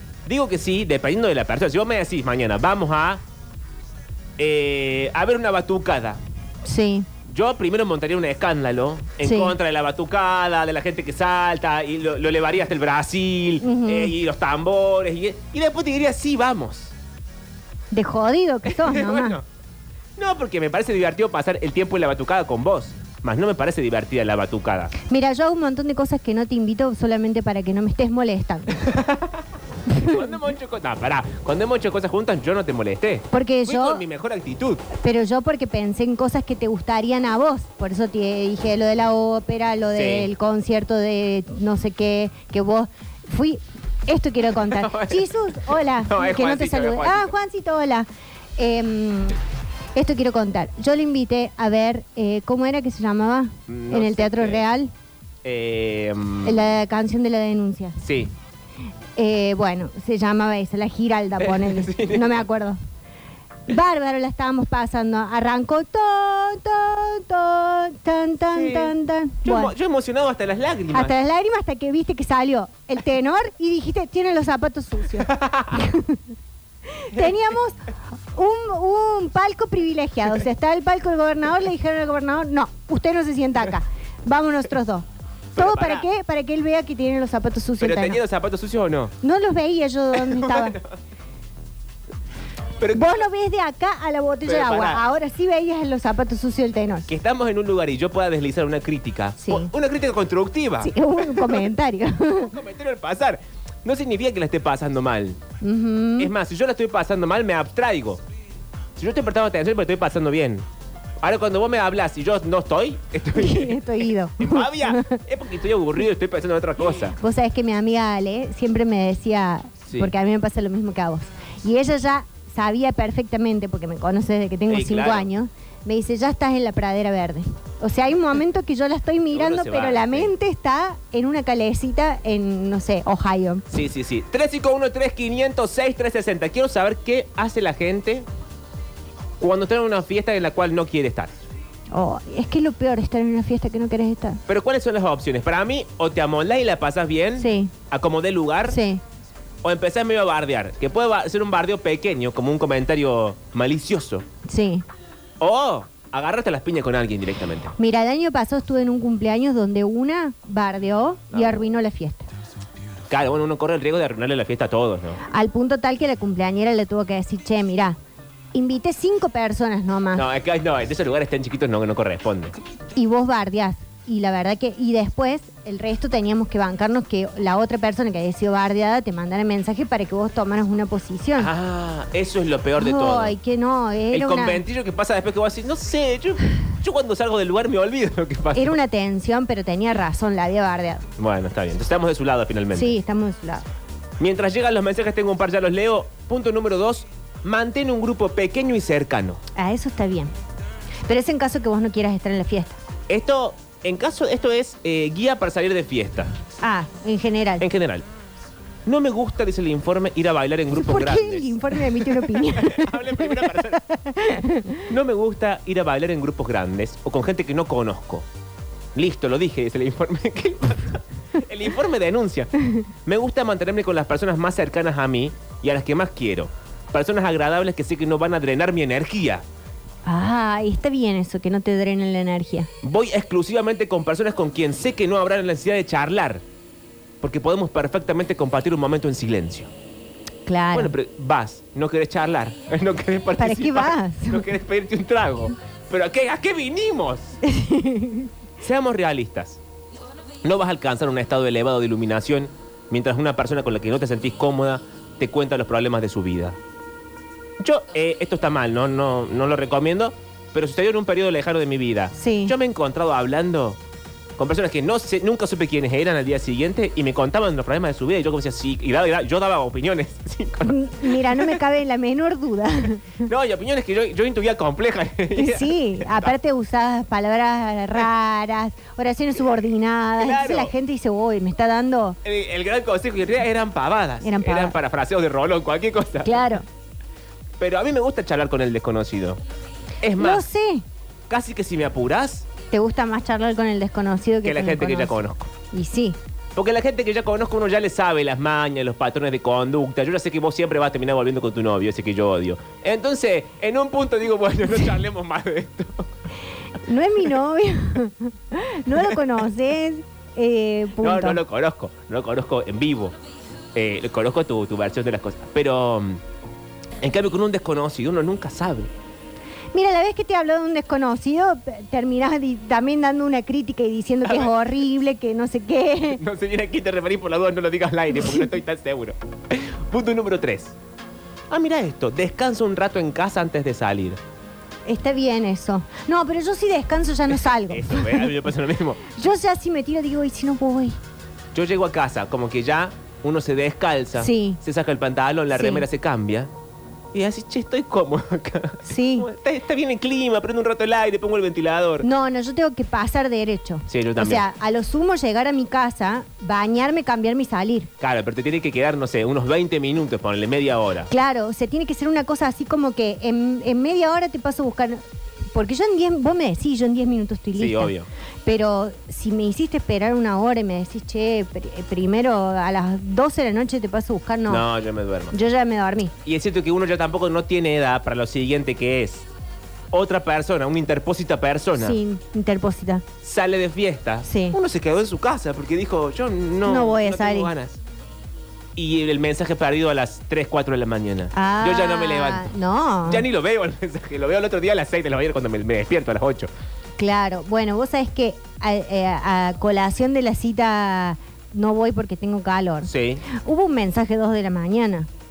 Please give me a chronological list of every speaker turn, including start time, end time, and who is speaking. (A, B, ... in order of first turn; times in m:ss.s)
0:00.2-0:03.2 A
0:04.4-0:06.2 A
0:06.6-0:07.1 B
0:07.3-0:16.9 A
0:09.2-0:09.5 B
0:13.6-0:14.1 B
0:17.9-0:19.4 B
0:18.6-0:19.4 A
0:20.2-0:24.9 A
0:25.0-0:28.9 B
0:28.8-0:29.4 A
0:29.9-0:30.2 B
0:30.0-0:34.8 A
0:33.3-0:34.0 B
0:35.0-0:49.4 B
0:39.9-0:40.3 A
0:44.7-0:45.3 A
0:46.0-0:47.3 A
0:49.9-0:54.9 B
0:53.7-0:54.6 A
0:55.4-0:56.7 A
0:56.4-0:58.0 B
0:58.0-0:58.3 A
0:59.2-1:02.8 B
1:01.4-1:02.4 A
1:03.7-1:09.7 B
1:08.5-1:08.9 A
1:09.4-1:11.1 A
1:10.9-1:16.2 B
1:15.2-1:15.8 A
1:16.9-1:17.8 B
1:18.3-1:25.0 B
1:25.5-1:26.1 A
1:25.6-1:28.2 B
1:27.8-1:29.1 A
1:29.2-1:30.8 B
1:30.2-1:30.9 A
1:32.8-1:33.2 A
1:32.9-1:37.1 B
1:34.5-1:35.0 A
1:37.1-1:41.7 A
1:39.4-1:39.7 B
1:40.8-1:42.6 B
1:42.4-1:45.4 A
1:45.6-1:46.3 B
1:46.2-1:48.2 A
1:49.0-1:50.6 A
1:51.2-1:57.2 A
1:53.3-1:55.2 B
1:57.2-2:13.6 B
2:04.7-2:05.3 A
2:09.3-2:10.3 A
2:13.7-2:18.2 A
2:19.4-2:21.3 A
2:21.9-2:24.4 B
2:24.5-2:28.8 A
2:27.4-2:27.7 B
2:28.7-2:29.0 B
2:29.6-2:34.2 A
2:34.4-2:34.8 B
2:35.4-2:37.7 A
2:37.8-2:42.3 B
2:41.3-2:41.6 A
2:43.1-2:45.2 A
2:45.2-2:48.0 B
2:48.5-2:50.2 B
2:50.1-2:52.6 A
2:53.0-3:01.5 B
3:01.4-3:03.3 A
3:02.8-3:04.6 B
3:04.1-3:08.7 A
3:08.5-3:11.0 B
3:11.2-3:13.0 A
3:12.7-3:13.7 B
3:14.2-3:19.4 A
3:19.6-3:20.3 B
3:21.1-3:22.8 B
3:23.1-3:26.3 A
3:26.6-3:27.6 B
3:27.6-3:28.0 A
3:28.8-3:33.8 A
3:30.7-3:34.8 B
3:34.9-3:38.2 A
3:38.9-3:49.4 A
3:50.0-3:52.7 B
3:52.8-3:56.4 A
3:57.2-3:59.7 A
4:00.4-4:00.9 B
4:00.7-4:07.4 A
4:03.4-4:04.4 B
4:07.4-4:08.3 B
4:08.6-4:09.6 A
4:10.4-4:16.6 A
4:17.6-4:23.8 A
4:22.1-4:22.5 B
4:24.4-4:31.6 A
4:30.6-4:33.2 B
4:33.2-4:36.3 A
4:35.4-4:42.2 B
4:40.2-4:40.7 A
4:42.2-4:46.4 A
4:44.2-4:44.8 B
4:46.2-4:46.6 B
4:47.6-4:49.4 A
4:50.0-4:50.4 A
4:50.2-4:50.8 B
4:51.3-4:52.5 A
4:52.7-4:55.1 B
4:54.4-4:55.5 A
4:55.7-4:56.2 B
4:56.5-5:06.1 A
5:06.8-5:11.4 B
5:11.0-5:13.1 A
5:13.7-5:16.2 A
5:17.0-5:18.9 A
5:19.7-5:26.2 B
5:24.2-5:24.5 A
5:26.1-5:30.7 A
5:28.2-5:28.4 B
5:31.5-5:34.2 A
5:34.8-5:38.3 B
5:37.7-5:39.0 A
5:39.1-5:41.0 B
5:41.5-5:46.5 A
5:44.2-5:44.6 B
5:45.5-5:45.8 B
5:47.1-5:52.0 A
5:48.8-5:49.3 B
5:52.0-5:57.9 B
5:53.9-5:54.4 A
5:58.0-6:01.1 A
6:01.1-6:05.0 B
6:05.5-6:07.9 B
6:07.6-6:08.1 A
6:08.4-6:14.6 B
6:14.5-6:15.4 A
6:15.3-6:16.1 B
6:16.2-6:19.2 A
6:19.9-6:22.0 A
6:21.8-6:23.0 B
6:23.2-6:27.8 A
6:24.2-6:24.6 B
6:26.6-6:27.5 B
6:28.8-6:32.5 A
6:31.3-6:33.2 B
6:33.0-6:36.5 A
6:37.0-6:45.1 B
6:42.8-6:43.2 A